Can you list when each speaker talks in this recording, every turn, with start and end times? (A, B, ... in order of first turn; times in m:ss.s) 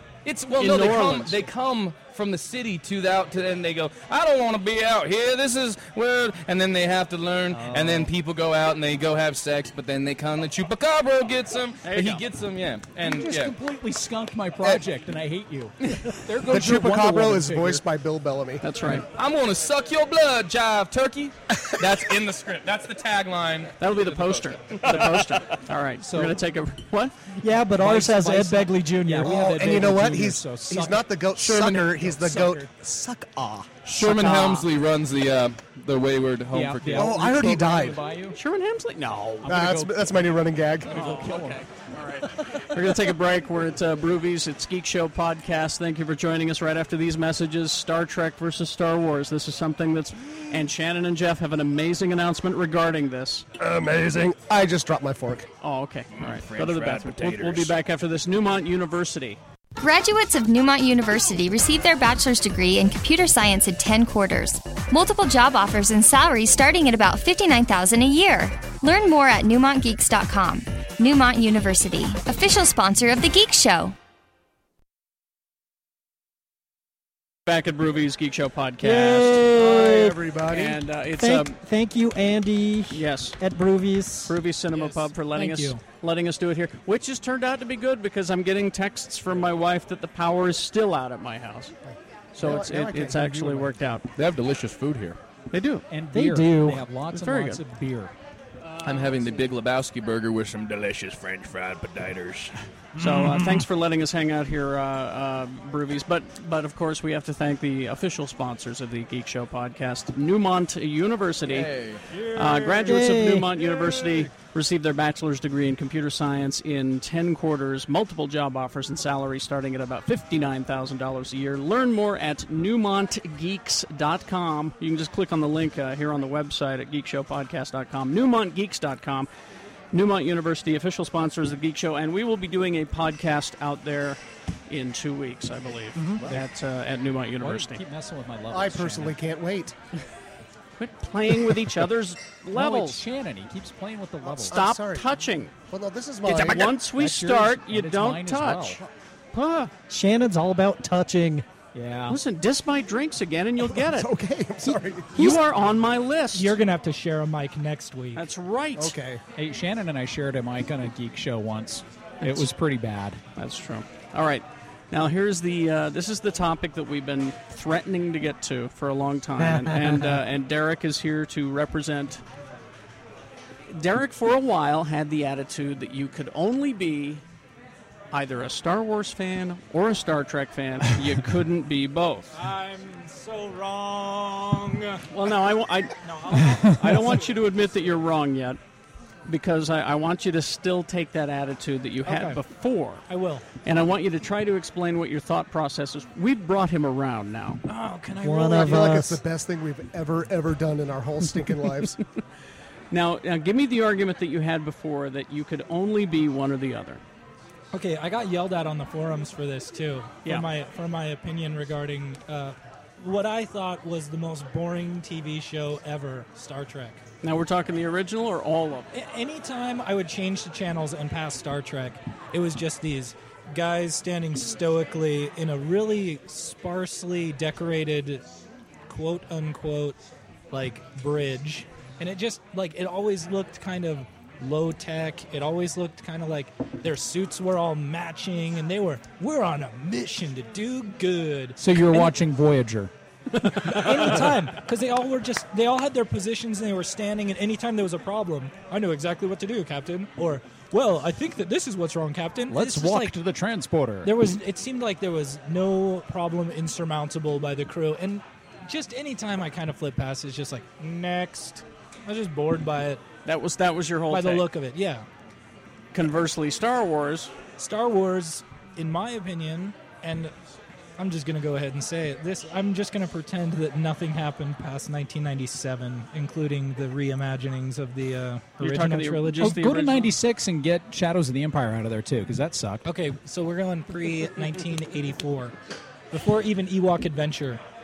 0:00.2-0:13.5 A
0:00.6-0:01.4 B
0:07.5-0:08.1 C
0:11.8-0:12.2 B
0:13.0-0:17.8 C
0:16.5-0:18.6 D
0:18.6-0:19.1 B
0:18.9-0:25.4 A
0:23.8-0:27.2 B
0:26.0-0:26.4 C
0:27.4-0:29.4 E
0:27.8-0:32.7 C
0:29.2-0:33.7 D
0:31.5-0:31.8 A
0:33.8-0:37.2 A
0:33.9-0:34.7 B
0:36.5-0:38.4 C
0:37.0-0:38.0 D
0:38.3-0:39.5 B
0:39.4-0:40.2 C
0:39.5-0:41.1 D
0:40.9-0:41.6 C
0:40.9-0:53.5 B
0:53.6-0:55.5 D
0:55.6-0:59.4 B
0:56.1-0:57.8 A
0:59.8-1:14.0 F
1:17.5-1:19.4 B
1:18.8-1:20.2 E
1:19.5-1:20.8 D
1:20.5-1:21.6 B
1:21.2-1:24.4 E
1:22.9-1:23.4 B
1:24.3-1:31.7 B
1:24.8-1:25.8 G
1:31.9-1:33.8 D
1:32.3-1:34.0 B
1:34.2-1:35.2 A
1:35.5-1:35.8 B
1:35.9-1:38.1 C
1:36.1-1:36.8 E
1:37.1-1:37.6 B
1:38.8-1:42.6 A
1:38.8-1:39.2 B
1:43.0-1:51.7 B
1:51.5-1:52.0 A
1:52.1-1:53.0 G
1:52.3-2:09.3 B
1:52.8-1:53.5 E
1:53.7-1:54.3 G
2:09.9-2:17.8 B
2:16.0-2:16.2 E
2:16.2-2:16.5 C
2:17.4-2:19.2 C
2:18.5-2:19.8 D
2:20.8-2:23.0 B
2:22.5-2:24.6 C
2:24.2-2:25.1 D
2:24.5-2:25.5 B
2:25.7-2:26.8 D
2:26.3-2:28.8 B
2:26.7-2:28.8 C
2:29.3-2:29.7 B
2:29.9-2:31.5 E
2:31.7-2:32.2 C
2:32.1-2:34.1 B
2:33.7-2:35.4 D
2:35.1-2:36.6 B
2:36.3-2:38.2 G
2:38.2-2:39.0 B
2:38.8-2:39.2 D
2:39.4-2:43.2 C
2:42.2-2:42.5 B
2:43.4-2:52.2 B
2:49.4-2:50.1 E
2:53.7-2:57.2 B
2:58.1-3:02.3 B
3:02.3-3:05.1 G
3:05.1-3:08.6 B
3:06.0-3:07.4 G
3:09.3-3:13.1 B
3:12.0-3:12.4 G
3:13.1-3:13.4 G
3:13.6-3:17.6 B
3:17.7-3:18.9 G
3:18.2-3:19.2 E
3:18.6-3:22.0 D
3:22.9-3:27.0 B
3:27.7-3:37.0 G
3:37.2-3:38.9 B
3:38.9-3:48.2 G
3:48.9-3:50.0 G
3:50.5-4:02.1 G
4:01.6-4:02.9 C
4:03.4-4:13.2 G
4:12.5-4:14.1 C
4:14.0-4:23.0 G
4:23.3-4:24.5 B
4:24.1-4:25.1 G
4:25.9-4:27.3 B
4:27.6-4:30.3 G
4:31.0-4:39.6 G
4:38.6-4:40.1 B
4:39.4-4:42.9 C
4:42.8-4:45.6 G
4:46.1-4:47.6 G